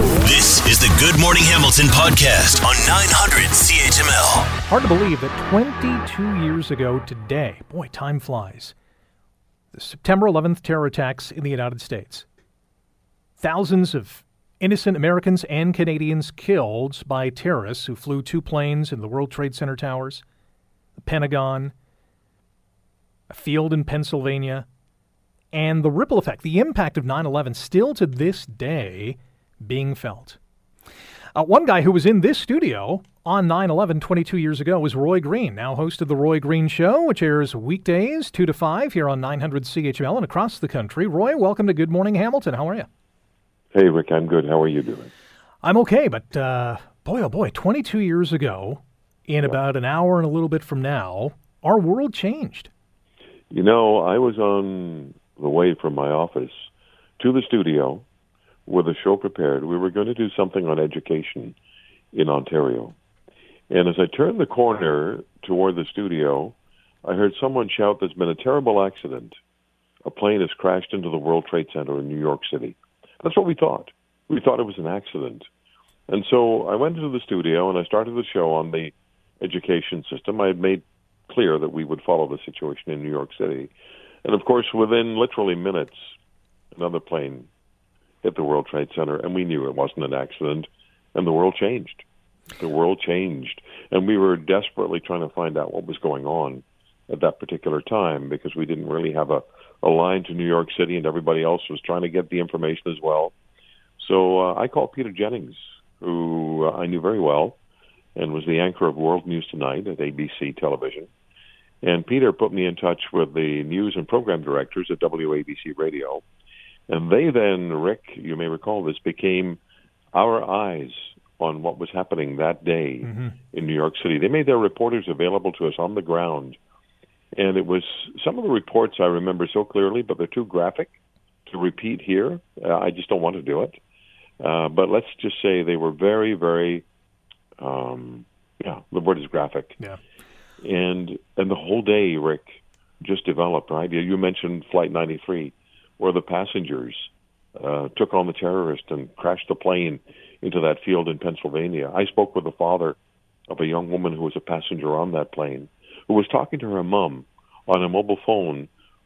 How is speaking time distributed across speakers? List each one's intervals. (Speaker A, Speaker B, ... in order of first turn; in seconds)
Speaker A: 0.2-4.5
Speaker B: 4.7-8.7, 9.7-12.2, 13.4-20.2, 21.0-21.7, 23.3-24.6, 25.5-30.4, 31.4-42.9, 45.6-52.7, 123.0-123.3
Speaker C: 43.7-45.1, 53.5-56.7, 57.2-58.0, 58.6-61.5, 62.1-63.0, 63.7-69.4, 70.0-75.5, 76.1-83.7, 84.2-86.0, 86.7-87.5, 88.2-92.0, 92.5-103.3, 104.0-107.6, 108.2-111.1, 111.8-116.2, 116.9-119.6, 120.1-126.6, 127.3-130.9, 131.5-133.8, 134.4-136.8, 137.6-139.8, 140.6-153.0, 153.5-158.7